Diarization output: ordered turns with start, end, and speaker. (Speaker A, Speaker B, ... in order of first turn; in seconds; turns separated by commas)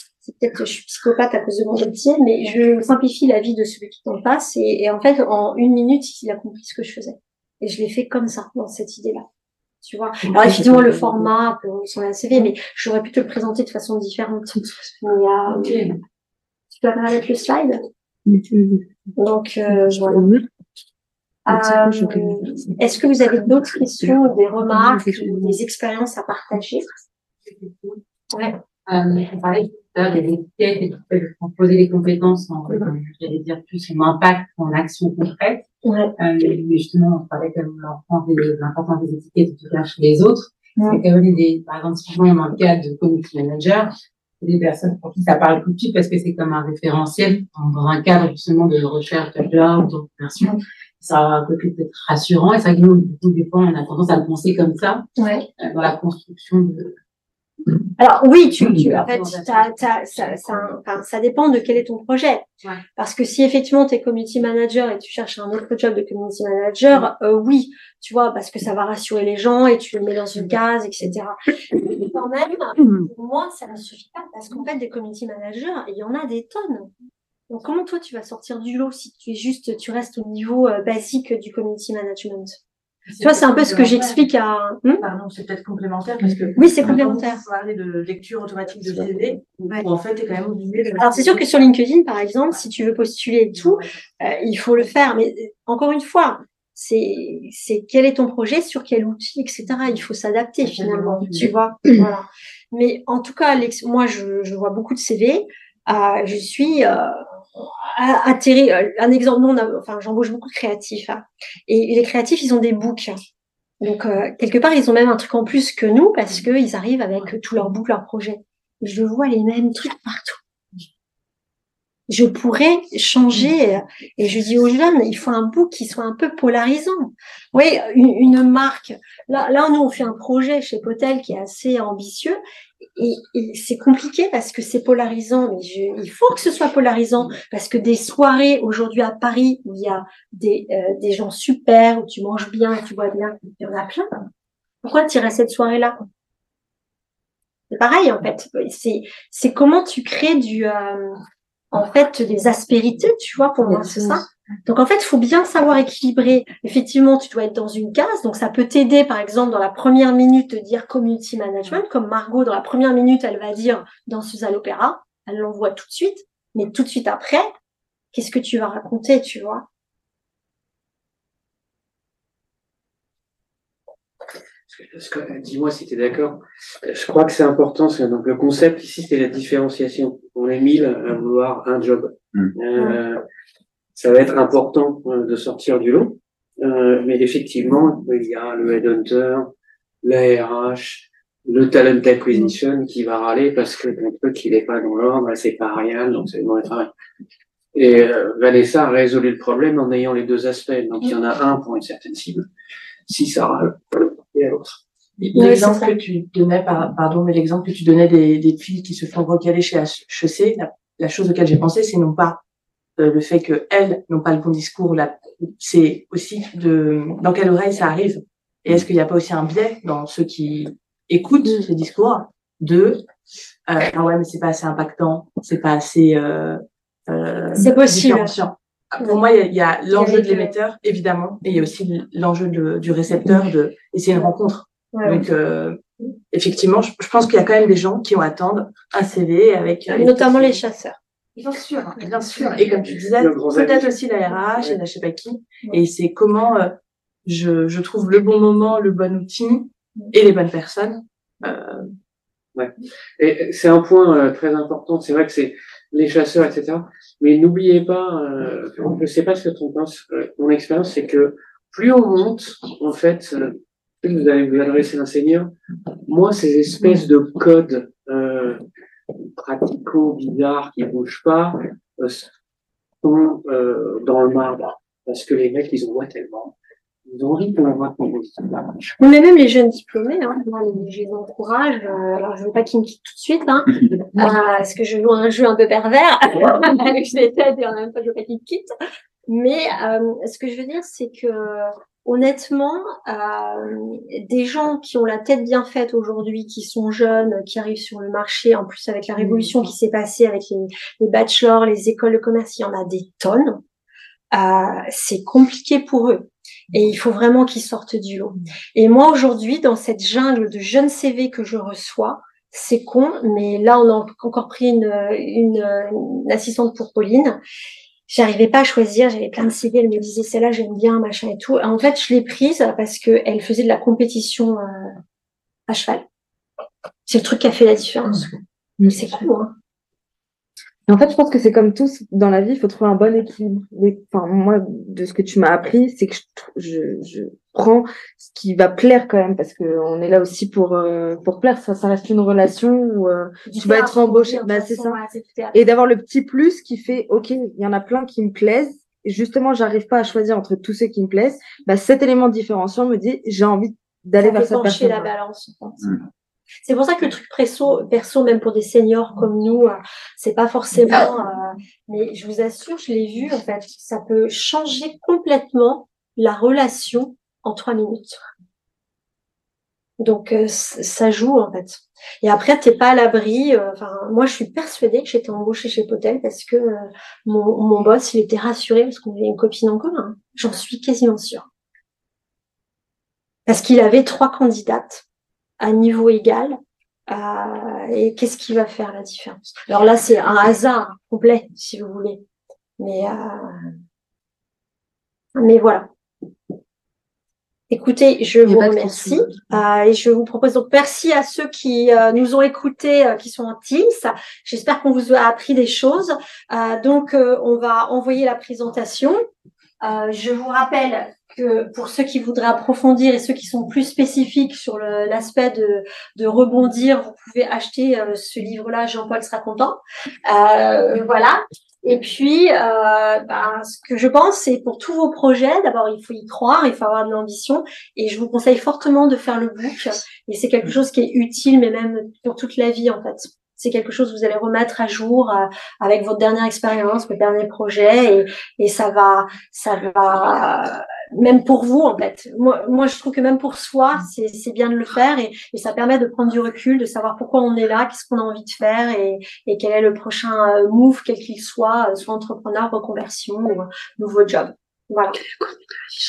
Speaker A: 0.2-9.2, Speaker A: 9.8-15.8, Speaker B: 10.6-11.1, Speaker B: 15.6-15.9, Speaker A: 16.7-17.8, Speaker B: 18.3-18.8, Speaker A: 19.2-20.3, Speaker A: 21.5-26.9, Speaker B: 21.5-22.1, Speaker C: 27.5-28.0, Speaker C: 28.9-35.7, Speaker A: 35.9-36.1, Speaker C: 36.2-55.1, Speaker A: 40.8-41.0, Speaker A: 55.2-55.5, Speaker C: 55.6-57.0, Speaker A: 58.0-62.5, Speaker C: 58.8-60.5, Speaker A: 63.0-76.9, Speaker A: 77.5-82.6, Speaker B: 83.1-84.3, Speaker A: 83.2-85.0, Speaker B: 85.0-91.4, Speaker A: 86.6-87.4, Speaker A: 91.0-113.2, Speaker C: 100.6-101.5, Speaker A: 113.8-120.4, Speaker A: 122.1-132.4, Speaker A: 133.0-144.1, Speaker A: 144.8-146.0, Speaker A: 147.7-151.2, Speaker A: 151.7-167.5, Speaker A: 168.1-169.7, Speaker D: 174.7-183.2, Speaker D: 184.0-189.5, Speaker D: 190.0-196.9, Speaker D: 197.7-202.5, Speaker D: 203.1-204.8, Speaker B: 205.2-212.4, Speaker A: 205.4-205.9, Speaker B: 213.0-223.1, Speaker B: 223.7-240.6, Speaker A: 227.6-228.3, Speaker A: 229.9-230.6, Speaker A: 234.9-235.2, Speaker A: 239.9-241.0, Speaker B: 241.4-251.9, Speaker D: 242.7-243.9, Speaker D: 252.6-265.5, Speaker D: 266.1-268.6, Speaker D: 269.4-272.3, Speaker D: 273.0-276.6, Speaker D: 277.1-278.8, Speaker A: 279.0-288.7, Speaker A: 289.3-303.6, Speaker A: 304.3-317.4, Speaker A: 318.1-324.9, Speaker A: 325.7-326.0, Speaker A: 327.1-328.3, Speaker A: 328.9-329.5, Speaker E: 330.9-345.0, Speaker A: 343.5-345.6, Speaker E: 345.5-355.1, Speaker A: 354.2-355.9, Speaker A: 356.6-368.2, Speaker A: 370.0-381.5, Speaker A: 383.5-385.0, Speaker A: 385.6-386.6, Speaker A: 387.1-392.2, Speaker A: 392.8-393.6, Speaker A: 395.4-395.9, Speaker A: 397.7-409.2, Speaker E: 398.4-399.3, Speaker A: 409.8-455.2